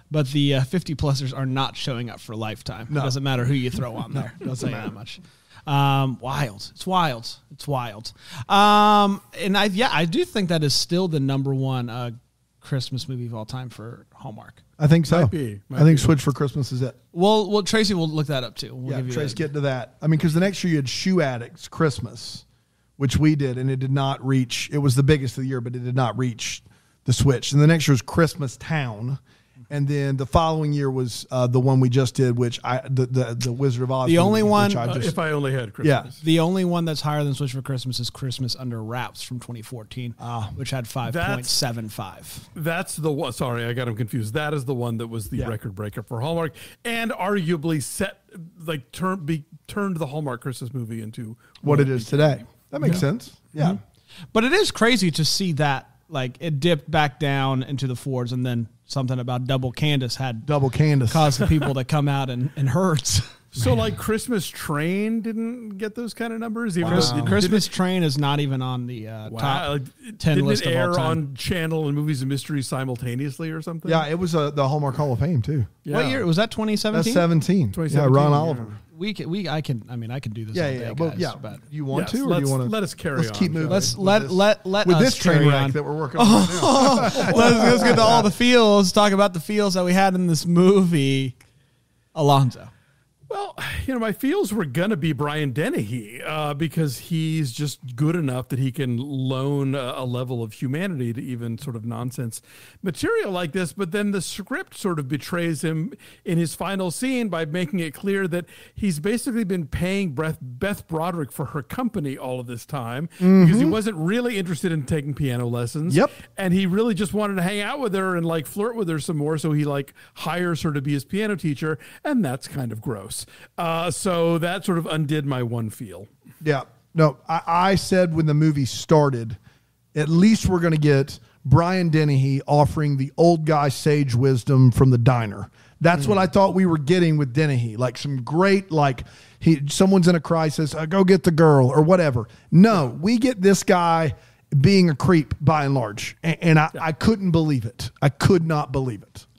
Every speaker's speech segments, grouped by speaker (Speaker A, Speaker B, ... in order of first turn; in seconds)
Speaker A: 0.1-14.6, 17.1-19.4, 34.0-34.9, 36.2-42.5, 54.3-60.5, 61.1-63.4, 66.8-71.2, 75.9-77.2, 78.9-81.6, 83.7-91.3, 92.1-92.7
Speaker B: 2.9-3.1, 4.1-4.9, 14.8-16.9, 18.9-22.4, 23.0-35.2, 35.8-36.1, 40.2-40.6, 51.6-53.8, 60.4-61.4, 66.8-67.4, 73.8-75.7, 76.9-78.8, 80.5-84.0, 84.8-88.3, 113.2-113.8, 115.9-116.1, 126.4-129.4, 129.9-149.2
Speaker C: 15.1-16.1, 34.8-36.2, 41.0-41.5, 42.5-53.0, 63.5-67.7, 69.3-74.0, 75.8-76.2, 77.7-78.8, 81.9-84.3, 87.0-88.2, 93.3-126.1